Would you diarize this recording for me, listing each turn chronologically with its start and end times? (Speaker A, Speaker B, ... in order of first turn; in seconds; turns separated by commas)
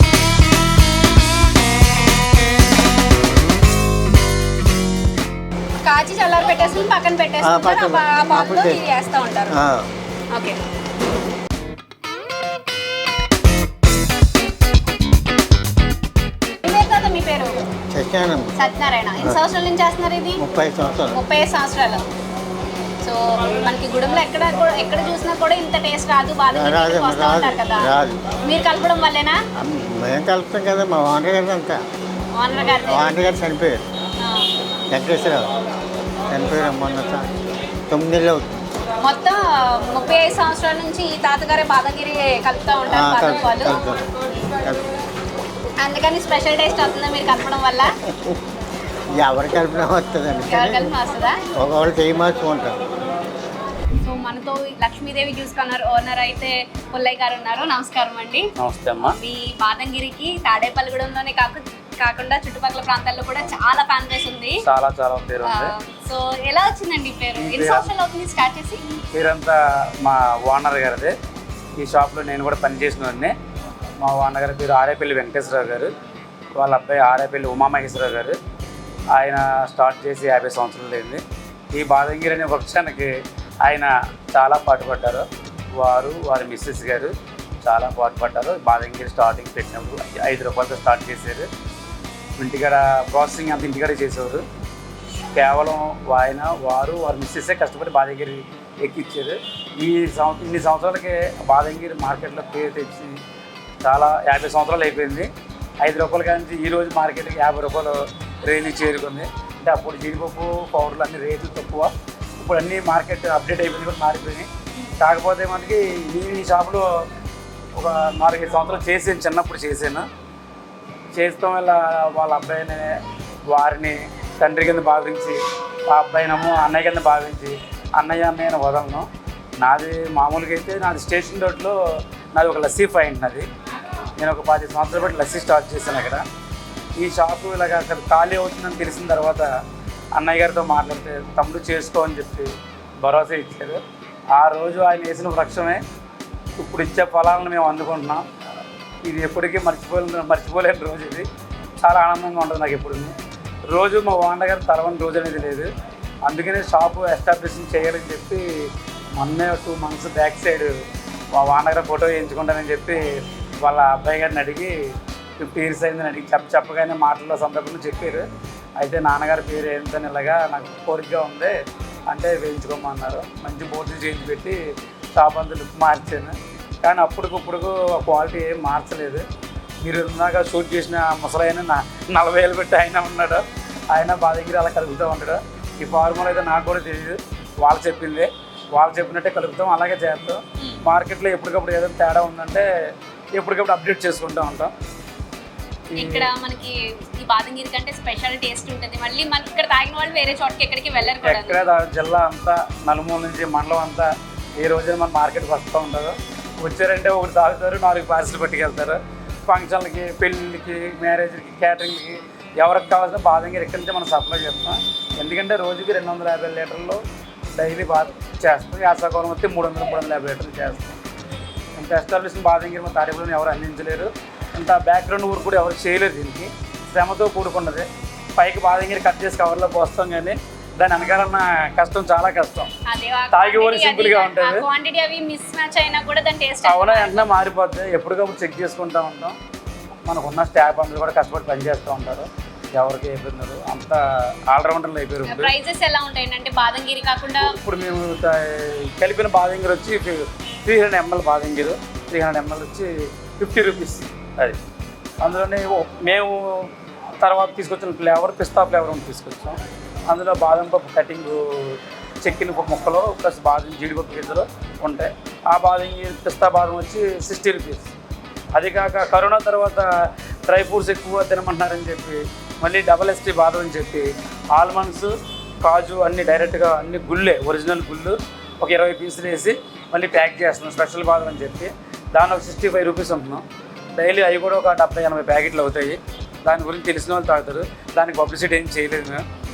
Speaker A: 5.8-9.6, Speaker B: 7.4-8.8, Speaker B: 9.5-9.9, Speaker A: 16.6-17.6, Speaker B: 17.9-18.5, Speaker A: 18.5-20.4, Speaker B: 20.4-21.2, Speaker A: 21.1-22.0, Speaker A: 23.0-27.9, Speaker B: 26.5-28.2, Speaker A: 28.4-29.4, Speaker B: 29.6-31.8, Speaker A: 32.4-33.2, Speaker B: 32.9-33.8, Speaker B: 34.9-35.5, Speaker B: 36.3-37.3, Speaker B: 37.9-38.5, Speaker A: 39.0-44.5, Speaker B: 42.9-44.0, Speaker B: 44.5-44.8, Speaker A: 45.8-47.9, Speaker B: 48.0-48.4, Speaker B: 49.1-50.9, Speaker A: 50.5-51.4, Speaker B: 51.5-52.8, Speaker A: 54.0-58.5, Speaker C: 58.6-59.1, Speaker A: 59.0-64.6, Speaker C: 64.6-65.7, Speaker A: 65.4-68.8, Speaker C: 67.4-67.9, Speaker C: 69.1-71.1, Speaker C: 71.8-73.3, Speaker C: 74.0-75.9, Speaker C: 76.5-78.3, Speaker C: 79.1-81.2, Speaker C: 81.7-83.1, Speaker C: 83.6-85.2, Speaker C: 85.8-91.5, Speaker C: 92.4-94.4, Speaker C: 95.3-103.2, Speaker C: 103.8-105.3, Speaker C: 105.8-114.5, Speaker C: 115.0-116.8, Speaker C: 117.7-120.0, Speaker C: 121.1-122.9, Speaker C: 123.5-129.1, Speaker C: 129.6-131.8, Speaker C: 132.3-133.4, Speaker C: 134.2-136.2, Speaker C: 137.0-139.5, Speaker C: 140.1-142.5, Speaker C: 143.0-143.8, Speaker C: 144.3-145.8, Speaker C: 146.6-148.2, Speaker C: 149.0-151.2, Speaker C: 151.8-153.1, Speaker C: 153.7-155.7, Speaker C: 156.2-158.4, Speaker C: 159.1-160.7, Speaker C: 161.3-163.0, Speaker C: 163.6-164.7, Speaker C: 165.4-168.2, Speaker C: 168.8-171.5, Speaker C: 172.1-174.6, Speaker C: 175.1-179.2, Speaker C: 179.8-192.7, Speaker C: 193.3-194.7, Speaker C: 195.9-196.3, Speaker A: 195.9-201.6, Speaker C: 201.2-217.0, Speaker C: 217.5-221.0, Speaker C: 221.8-227.8, Speaker C: 228.3-232.7, Speaker A: 232.9-237.3, Speaker C: 233.3-234.7, Speaker C: 236.6-239.3, Speaker C: 240.0-245.5, Speaker A: 245.3-247.5, Speaker C: 247.4-254.6, Speaker C: 255.2-267.9, Speaker C: 268.5-269.9, Speaker C: 270.5-275.1, Speaker C: 275.6-289.2